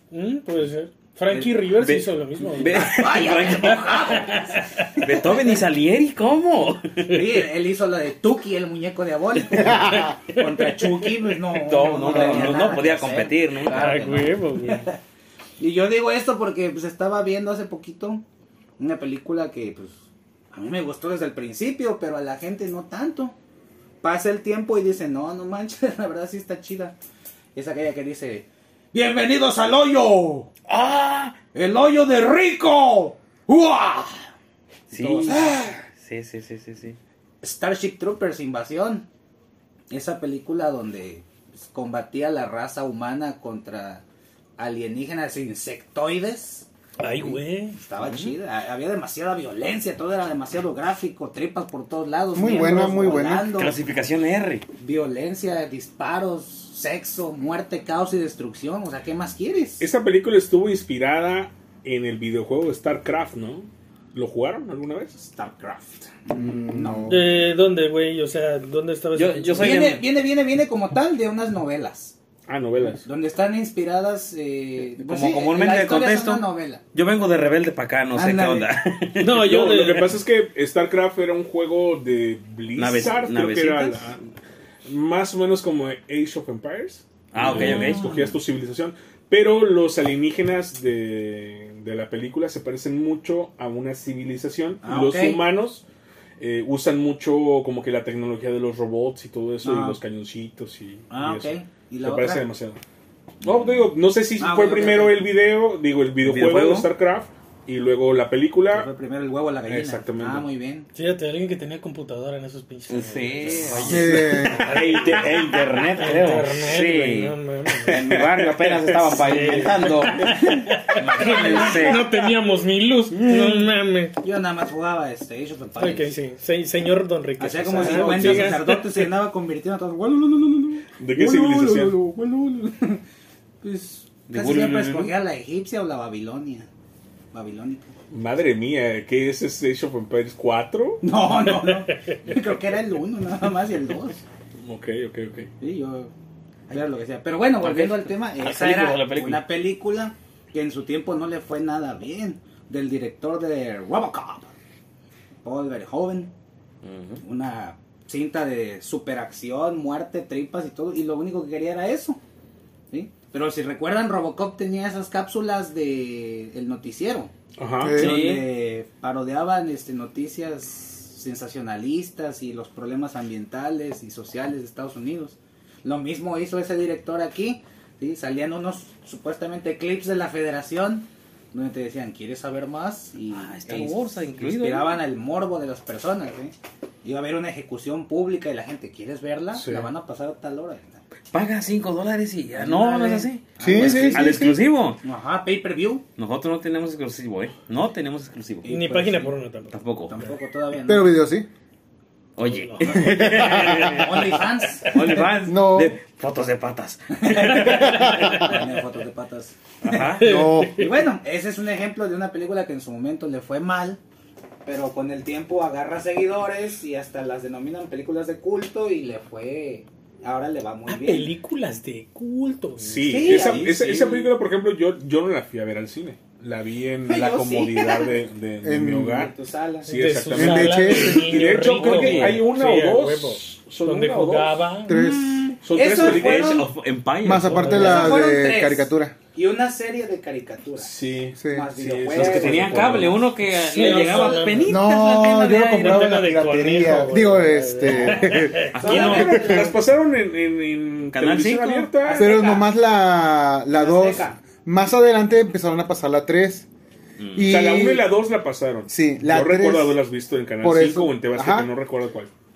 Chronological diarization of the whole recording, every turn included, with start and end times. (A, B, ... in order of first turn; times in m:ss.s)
0:00.1-0:03.0 A
0:01.3-0:01.6 B
0:01.8-0:04.4 C
0:02.7-0:05.6 B
0:04.4-0:04.8 A
0:05.0-0:07.3 C
0:07.1-0:15.0 B
0:09.5-0:14.4 C
0:12.1-0:12.5 A
0:13.7-0:14.9 A
0:15.6-0:18.2 B
0:18.8-0:20.0 B
0:20.5-0:23.4 B
0:24.0-0:27.0 B
0:27.6-0:30.6 B
0:30.7-0:31.4 C
0:31.5-0:34.3 B
0:34.9-0:37.0 C
0:34.9-0:35.8 B
0:37.4-0:39.1 B
0:39.9-0:44.0 B
0:44.6-0:53.8 B
0:47.0-0:47.8 A
0:48.0-0:48.3 C
0:52.3-0:53.5 D
0:53.6-0:54.7 C
0:54.8-0:59.8 B
0:59.8-1:05.3 E
1:05.3-1:07.2 B
1:06.3-1:07.2 D
1:07.1-1:09.9 A
1:09.2-1:10.0 C
1:09.6-1:12.2 B
1:12.5-1:13.0 E
1:13.0-1:16.8 B
1:15.0-1:19.4 C
1:18.2-1:18.7 B
1:19.2-1:20.2 A
1:19.3-1:24.2 E
1:22.8-1:24.2 C
1:24.9-1:35.8 E
1:27.3-1:28.2 C
1:27.4-1:28.4 B
1:34.8-1:35.4 B
1:36.4-1:42.8 E
1:39.6-1:40.0 B
1:41.1-1:42.5 B
1:43.4-1:43.7 B
1:43.4-1:48.9 E
1:44.4-1:45.2 B
1:46.2-1:46.9 C
1:48.7-1:50.9 B
1:49.7-1:50.5 E
1:51.0-1:55.4 A
1:52.9-2:02.1 C
1:53.9-1:54.7 D
1:55.9-1:58.2 A
1:57.9-1:59.1 E
1:59.0-2:04.2 A
2:00.2-2:01.4 B
2:03.1-2:03.7 C
2:04.2-2:06.1 B
2:05.8-2:08.8 A
2:07.4-2:13.0 B
2:07.8-2:08.6 E
2:11.0-2:12.0 E
2:13.6-2:16.7 B
2:14.3-2:15.1 C
2:17.3-2:17.9 B
2:18.1-2:21.0 E
2:21.0-2:24.2 B
2:24.6-2:25.5 E
2:25.6-2:26.1 B
2:26.7-2:34.5 B
2:27.6-2:29.4 C
2:35.4-2:36.3 B
2:36.8-2:37.2 C
2:37.2-2:42.2 B
2:42.9-2:47.3 B
2:47.6-2:48.0 E
2:47.8-2:48.2 D
2:48.0-3:11.0 B
2:48.0-2:48.5 C
3:03.3-3:05.0 C
3:09.5-3:09.9 E
3:11.3-3:15.0 C
3:12.6-3:14.4 B
3:13.6-3:14.6 D
3:15.0-3:16.0 B
3:16.2-3:18.7 C
3:18.6-3:19.4 B
3:18.7-3:19.8 A
3:19.7-3:20.2 C
3:20.1-3:21.1 B
3:20.9-3:21.5 D
3:22.4-3:24.3 C
3:22.4-3:24.1 A
3:23.0-3:24.0 D
3:23.0-3:25.3 B
3:24.8-3:28.6 C
3:25.4-3:26.0 D
3:27.2-3:30.1 B
3:27.7-3:28.3 A
3:27.8-3:28.3 D
3:29.8-3:30.3 C
3:30.0-3:30.9 A
3:30.2-3:30.9 D
3:30.8-3:34.0 B
3:34.6-3:41.3 B
3:40.9-3:43.5 A
3:42.8-3:49.3 E
3:43.0-3:44.3 B
3:47.1-3:48.2 B
3:48.6-3:49.3 D
3:49.1-3:49.9 B
3:49.9-3:55.0 A
3:49.9-3:54.6 E
3:50.3-3:51.4 D
3:51.6-3:52.4 C
3:54.9-3:55.6 D
3:54.9-3:56.7 B
3:55.6-3:56.7 E
3:55.8-3:58.2 C
3:57.2-3:59.2 D
3:57.5-3:58.0 A
3:57.7-4:00.9 B
4:00.8-4:03.3 E
4:01.4-4:01.7 D
4:01.5-4:03.1 B
4:02.1-4:06.2 C
4:03.5-4:04.8 A
4:03.8-4:04.5 B
4:04.7-4:09.7 D
4:05.6-4:08.8 A
4:08.1-4:09.8 B
4:08.7-4:09.6 C
4:08.8-4:12.3 E
4:11.1-4:11.9 C
4:12.0-4:12.7 B
4:12.2-4:16.7 D
4:13.7-4:14.4 B
4:17.2-4:17.5 C
4:17.4-4:18.1 D
4:17.4-4:22.3 E
4:18.9-4:20.0 D
4:20.6-4:21.7 D